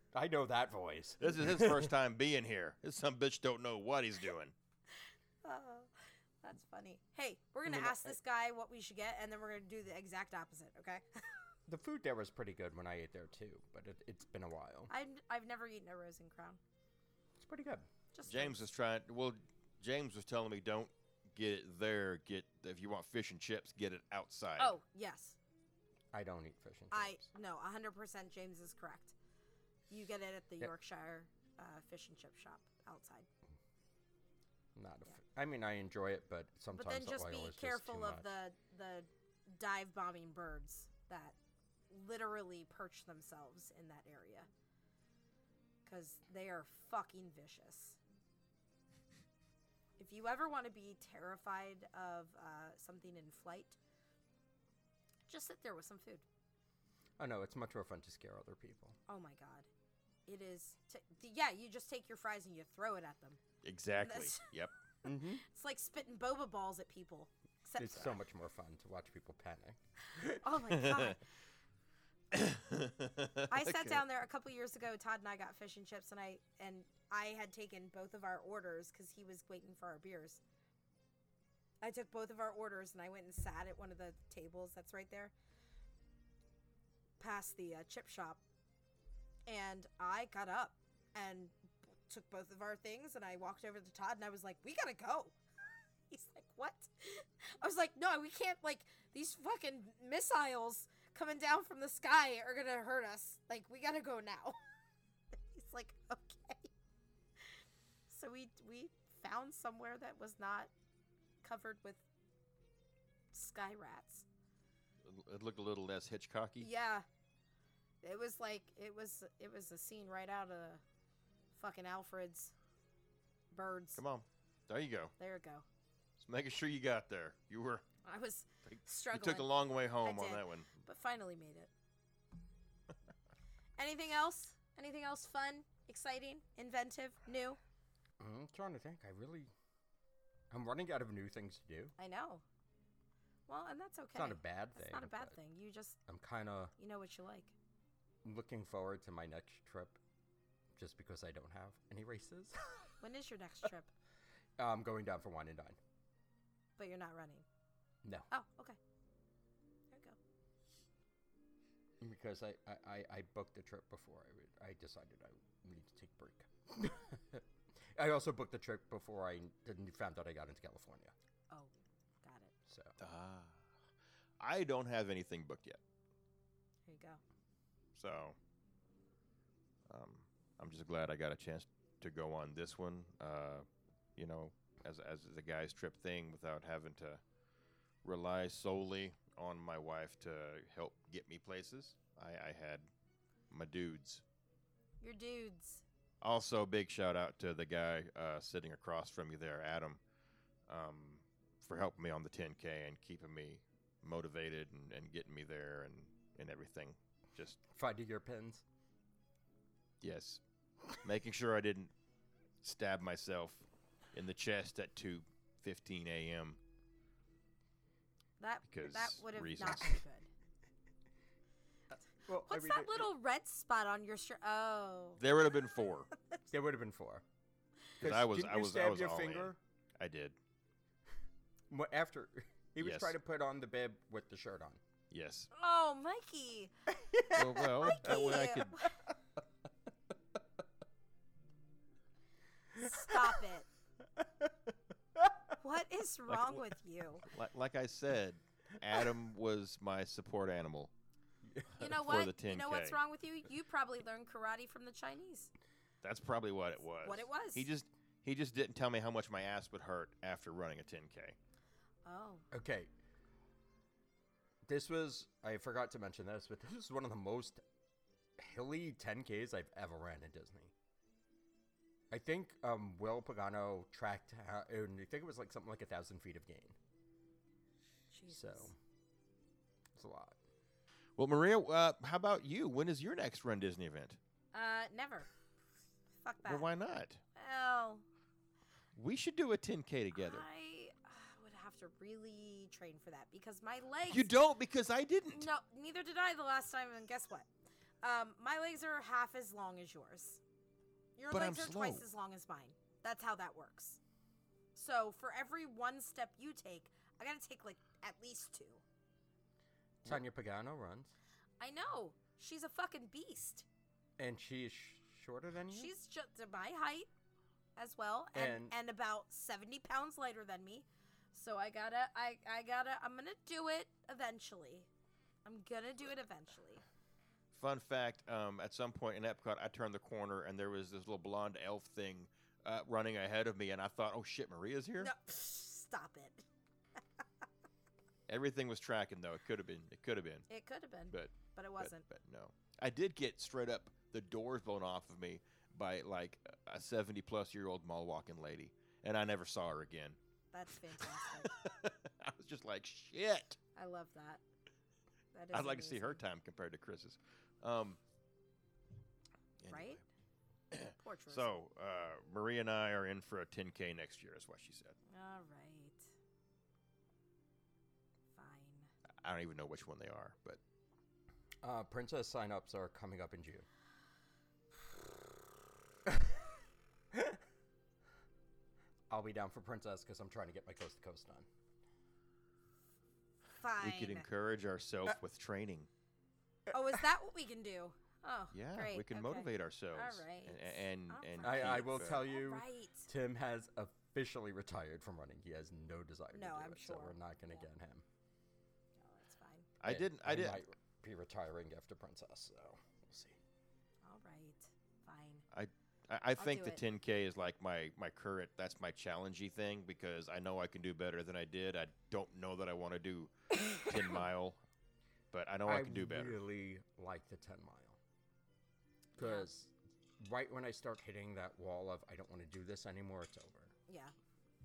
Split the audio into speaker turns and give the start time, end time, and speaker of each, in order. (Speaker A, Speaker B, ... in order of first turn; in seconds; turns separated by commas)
Speaker A: 0.1-1.9, Speaker B: 1.2-4.5, Speaker C: 5.4-5.9, Speaker C: 6.4-11.3, Speaker A: 7.7-8.2, Speaker A: 11.7-14.9, Speaker C: 14.9-16.6, Speaker A: 17.4-17.9, Speaker C: 18.1-18.6, Speaker B: 18.2-24.7, Speaker C: 24.6-25.4, Speaker A: 26.1-27.2, Speaker C: 26.9-29.1, Speaker C: 29.9-33.3, Speaker A: 34.8-38.3, Speaker C: 36.7-41.4, Speaker C: 41.9-44.5, Speaker C: 45.9-48.0, Speaker C: 50.0-53.8, Speaker C: 55.3-56.2, Speaker A: 57.2-59.0, Speaker C: 59.1-59.7, Speaker C: 60.3-63.4, Speaker B: 63.6-64.7, Speaker C: 64.0-64.5, Speaker A: 65.0-65.4, Speaker C: 65.1-68.2, Speaker A: 67.8-70.4, Speaker C: 70.2-71.2, Speaker B: 70.7-71.1, Speaker B: 72.3-74.0, Speaker C: 73.5-80.4, Speaker C: 81.8-85.3, Speaker C: 87.2-88.4, Speaker C: 89.5-95.4, Speaker C: 96.1-104.6, Speaker C: 105.3-106.7, Speaker C: 107.4-110.7, Speaker C: 111.4-112.0, Speaker C: 113.3-114.2, Speaker B: 115.0-116.7, Speaker C: 116.6-117.0, Speaker C: 118.0-120.8, Speaker C: 121.5-122.5, Speaker C: 123.5-124.0, Speaker B: 124.0-125.1, Speaker C: 125.2-125.7, Speaker B: 126.2-127.8, Speaker C: 128.0-129.5, Speaker B: 128.7-130.7, Speaker C: 130.0-131.7, Speaker C: 133.8-137.6, Speaker A: 138.2-139.5, Speaker A: 140.5-141.9, Speaker C: 142.0-142.4, Speaker C: 143.5-146.0, Speaker A: 144.1-145.4, Speaker A: 146.1-146.7, Speaker C: 146.8-147.5, Speaker A: 148.2-150.0, Speaker A: 150.8-152.9, Speaker C: 153.0-153.9, Speaker A: 154.6-155.8, Speaker C: 156.8-157.4, Speaker A: 158.0-158.3, Speaker C: 158.3-158.8, Speaker C: 159.9-160.2, Speaker A: 162.0-171.1, Speaker C: 172.2-172.5, Speaker A: 172.7-173.0, Speaker B: 173.0-173.7, Speaker B: 174.4-175.8, Speaker C: 176.9-177.2, Speaker B: 177.9-178.4, Speaker B: 179.9-187.2, Speaker B: 188.0-192.9, Speaker B: 193.5-194.2, Speaker C: 195.0-195.8, Speaker B: 196.2-200.0, Speaker B: 200.7-207.6, Speaker A: 207.7-208.6, Speaker B: 210.0-210.4, Speaker B: 211.0-211.9, Speaker B: 212.6-216.6, Speaker C: 218.4-220.3, Speaker B: 218.7-220.0, Speaker A: 222.3-223.1, Speaker C: 222.4-225.2, Speaker B: 225.2-226.1, Speaker A: 226.5-227.2, Speaker A: 228.0-229.6, Speaker B: 228.0-230.4, Speaker A: 231.7-234.8, Speaker B: 232.8-233.2, Speaker B: 235.1-235.5, Speaker C: 235.5-236.7, Speaker A: 237.0-238.4, Speaker B: 237.3-238.8, Speaker C: 237.8-239.0, Speaker A: 242.8-243.4, Speaker C: 242.8-243.7, Speaker A: 244.2-244.5, Speaker A: 245.2-245.5, Speaker C: 245.6-247.3, Speaker B: 247.2-250.9, Speaker B: 251.7-253.0, Speaker C: 251.8-255.5, Speaker B: 256.0-261.4, Speaker C: 257.0-257.7, Speaker C: 262.1-262.4, Speaker A: 262.5-262.9, Speaker A: 264.6-267.6, Speaker A: 268.4-270.7, Speaker A: 272.1-276.8, Speaker C: 278.1-278.7, Speaker A: 278.3-278.8, Speaker A: 279.9-280.4, Speaker B: 281.2-284.2, Speaker C: 284.5-285.3, Speaker C: 286.2-286.7, Speaker B: 286.4-287.2, Speaker C: 287.4-288.0, Speaker B: 289.0-290.4, Speaker C: 290.1-294.3, Speaker B: 294.1-295.5, Speaker C: 295.3-297.5, Speaker C: 298.0-300.4, Speaker C: 301.2-304.0, Speaker B: 301.3-302.0, Speaker C: 304.8-308.8, Speaker A: 310.0-311.1, Speaker C: 311.6-313.7, Speaker A: 314.2-315.9, Speaker C: 315.7-317.1, Speaker C: 317.8-324.9, Speaker A: 318.3-318.7, Speaker C: 325.4-326.8, Speaker B: 327.5-335.1, Speaker C: 335.0-336.4, Speaker B: 338.3-340.5, Speaker C: 340.5-342.0, Speaker B: 341.1-350.2, Speaker C: 350.5-351.5, Speaker B: 351.0-353.6, Speaker C: 353.8-354.4, Speaker C: 355.3-356.2, Speaker B: 355.5-358.0, Speaker B: 359.6-360.0, Speaker C: 359.7-360.0, Speaker B: 360.7-365.0, Speaker C: 361.0-361.6, Speaker C: 365.1-366.1, Speaker C: 368.3-368.9, Speaker B: 369.2-370.6, Speaker A: 371.6-373.7, Speaker A: 376.1-376.4, Speaker A: 377.1-377.4, Speaker A: 379.1-381.5, Speaker C: 383.6-384.3, Speaker B: 383.8-385.9, Speaker C: 386.7-393.1, Speaker B: 388.5-392.2, Speaker A: 391.4-398.0, Speaker C: 396.3-397.6, Speaker C: 399.0-399.7, Speaker B: 399.8-400.6, Speaker A: 399.9-403.4, Speaker C: 404.0-405.4, Speaker B: 405.5-414.6, Speaker C: 406.4-406.8, Speaker B: 415.3-416.4, Speaker A: 415.7-418.0, Speaker A: 419.2-423.7, Speaker C: 419.2-419.5, Speaker C: 423.9-424.1